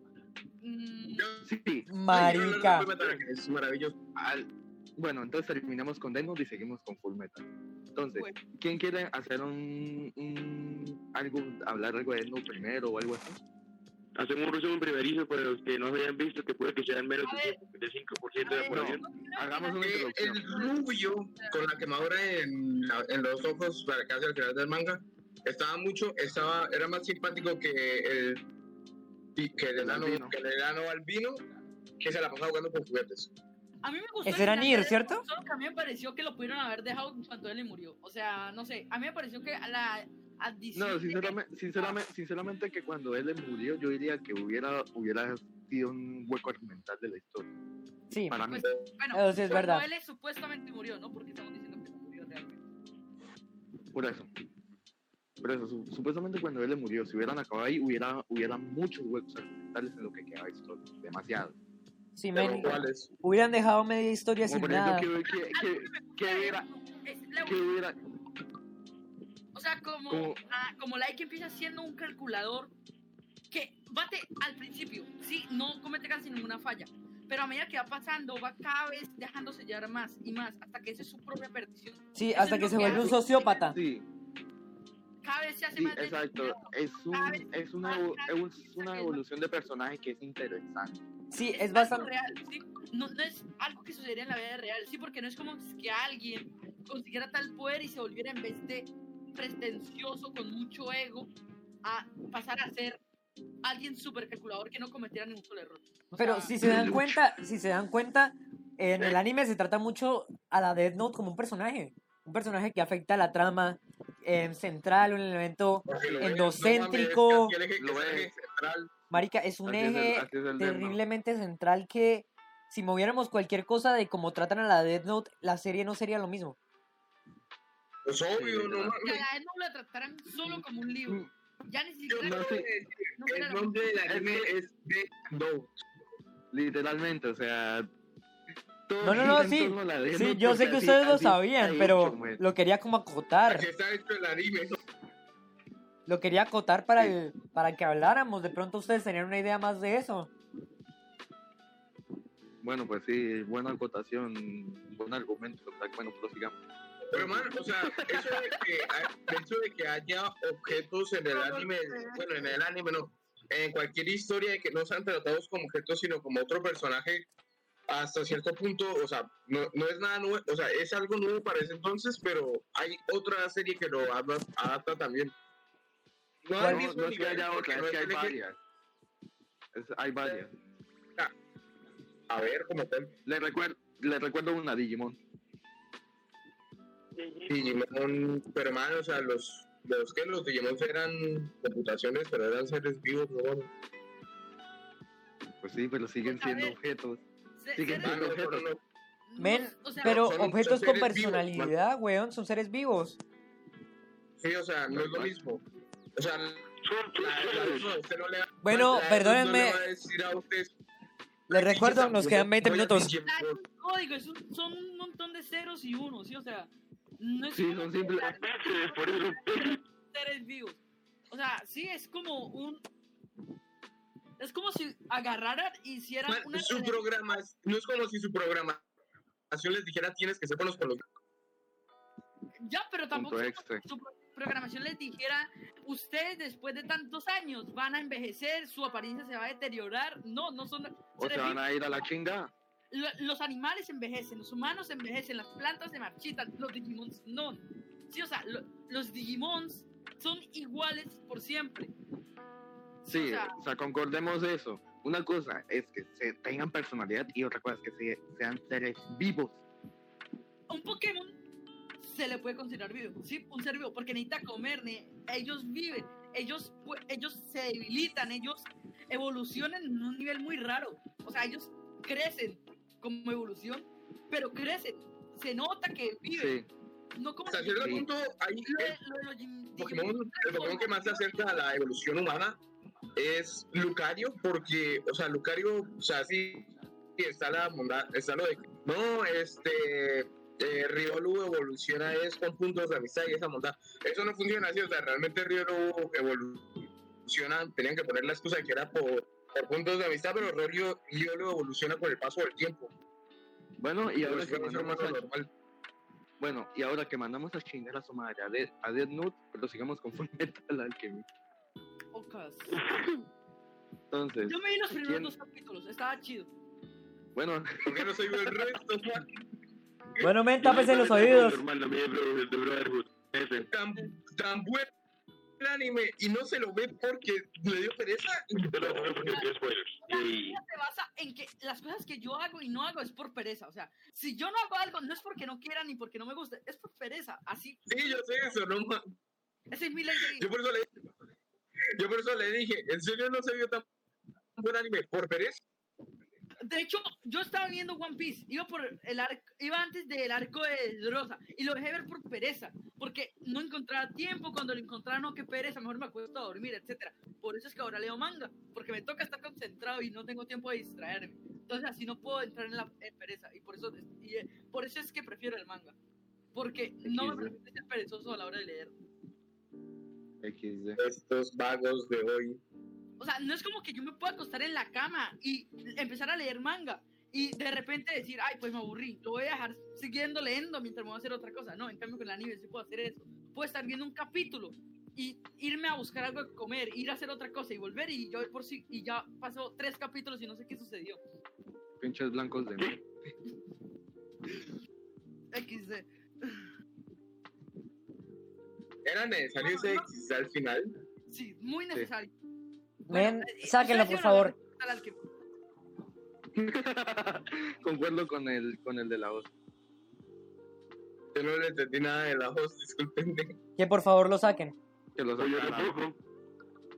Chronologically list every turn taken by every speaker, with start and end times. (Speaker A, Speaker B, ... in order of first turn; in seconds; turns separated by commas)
Speaker A: 0.6-1.3, Speaker B: 1.2-1.5, Speaker C: 1.4-1.9, Speaker D: 1.9-2.9, Speaker B: 2.1-3.9, Speaker C: 4.2-13.4, Speaker A: 8.1-8.4, Speaker E: 14.2-19.1, Speaker A: 17.2-17.6, Speaker A: 18.4-20.8, Speaker C: 18.7-20.5, Speaker B: 19.8-28.4, Speaker A: 21.4-21.6, Speaker B: 29.4-31.4, Speaker C: 29.7-30.4, Speaker B: 32.0-33.3, Speaker A: 33.8-42.0, Speaker D: 34.2-35.2, Speaker C: 40.7-47.5, Speaker D: 48.1-48.4, Speaker C: 48.3-48.7, Speaker A: 48.5-52.6, Speaker D: 49.1-49.8, Speaker C: 53.9-54.3, Speaker C: 55.4-61.5, Speaker D: 62.1-65.1, Speaker B: 62.3-63.1, Speaker C: 64.4-66.7, Speaker A: 65.2-67.6, Speaker C: 67.4-68.0, Speaker A: 69.5-72.7, Speaker C: 70.1-70.4, Speaker A: 73.5-83.7, Speaker D: 82.1-83.8, Speaker C: 82.8-83.2, Speaker C: 83.7-84.0, Speaker A: 85.2-89.2, Speaker C: 85.8-91.0, Speaker D: 91.3-92.1, Speaker A: 91.5-101.3, Speaker A: 101.8-103.0, Speaker A: 103.6-106.5, Speaker D: 106.1-117.5, Speaker C: 106.6-107.2, Speaker B: 115.8-118.9, Speaker C: 115.9-116.4, Speaker C: 117.8-118.3, Speaker D: 119.1-126.6, Speaker C: 119.6-121.0, Speaker B: 128.0-129.2, Speaker C: 128.3-129.0, Speaker A: 129.0-132.6, Speaker C: 130.4-131.3, Speaker B: 132.1-135.7, Speaker C: 132.2-132.7, Speaker A: 133.2-133.8, Speaker C: 134.1-134.6, Speaker C: 136.5-137.9, Speaker C: 138.9-142.4, Speaker D: 139.0-143.7, Speaker B: 143.5-144.8, Speaker D: 146.1-150.3, Speaker C: 152.6-156.6, Speaker B: 157.1-167.2, Speaker C: 157.1-158.6, Speaker A: 161.3-162.6, Speaker B: 167.9-175.3, Speaker B: 176.5-178.3, Speaker C: 176.5-178.6, Speaker D: 176.6-176.9, Speaker C: 179.7-180.5, Speaker B: 182.3-183.1, Speaker C: 183.2-185.2, Speaker E: 187.1-187.6, Speaker B: 187.5-193.7, Speaker C: 195.6-197.2, Speaker A: 196.2-196.8, Speaker A: 197.6-198.3, Speaker C: 197.8-198.7, Speaker B: 198.0-198.8, Speaker A: 199.3-200.3, Speaker D: 199.4-203.2, Speaker B: 200.0-201.7, Speaker B: 204.4-205.6, Speaker C: 204.9-205.3, Speaker B: 206.2-210.7, Speaker E: 206.8-207.9, Speaker D: 208.6-209.8, Speaker B: 211.5-213.6, Speaker D: 211.5-213.1, Speaker A: 213.2-222.8, Speaker C: 217.5-218.3, Speaker E: 218.3-219.8, Speaker A: 224.4-227.3, Speaker B: 226.3-228.8, Speaker B: 229.5-231.0, Speaker A: 232.6-242.1, Speaker C: 233.1-233.8, Speaker C: 241.2-242.5, Speaker A: 242.9-251.9, Speaker C: 253.0-259.6, Speaker A: 253.1-253.6, Speaker A: 260.7-261.4, Speaker A: 262.0-276.6, Speaker C: 276.3-276.7, Speaker A: 277.2-278.1, Speaker B: 277.5-279.0, Speaker A: 278.6-281.6, Speaker B: 279.8-282.6, Speaker B: 283.1-302.9, Speaker C: 303.8-305.2, Speaker B: 304.2-305.5, Speaker C: 306.4-311.2, Speaker A: 312.1-312.8, Speaker E: 312.7-313.2, Speaker C: 314.1-315.3, Speaker A: 314.4-316.5, Speaker C: 317.3-318.5, Speaker B: 317.8-319.3, Speaker D: 320.2-321.6, Speaker E: 320.6-323.7, Speaker B: 323.7-324.9, Speaker B: 325.6-329.4, Speaker E: 328.7-330.6, Speaker A: 329.3-338.5, Speaker B: 337.9-339.0, Speaker A: 339.7-340.5, Speaker B: 340.2-340.9, Speaker B: 342.0-343.9, Speaker B: 344.6-345.6, Speaker A: 346.6-365.9, Speaker A: 366.5-368.9, Speaker C: 367.0-367.6, Speaker C: 370.4-371.0, Speaker B: 371.0-372.6, Speaker A: 373.2-391.2, Speaker C: 392.0-393.0, Speaker A: 394.5-394.7, Speaker A: 395.5-396.7, Speaker B: 399.0-400.9, Speaker A: 399.6-400.1, Speaker A: 401.3-402.3, Speaker D: 403.1-404.5, Speaker A: 403.1-405.2, Speaker C: 406.5-409.5, Speaker B: 411.3-413.6, Speaker D: 413.8-414.7, Speaker C: 415.1-416.0, Speaker E: 415.4-416.2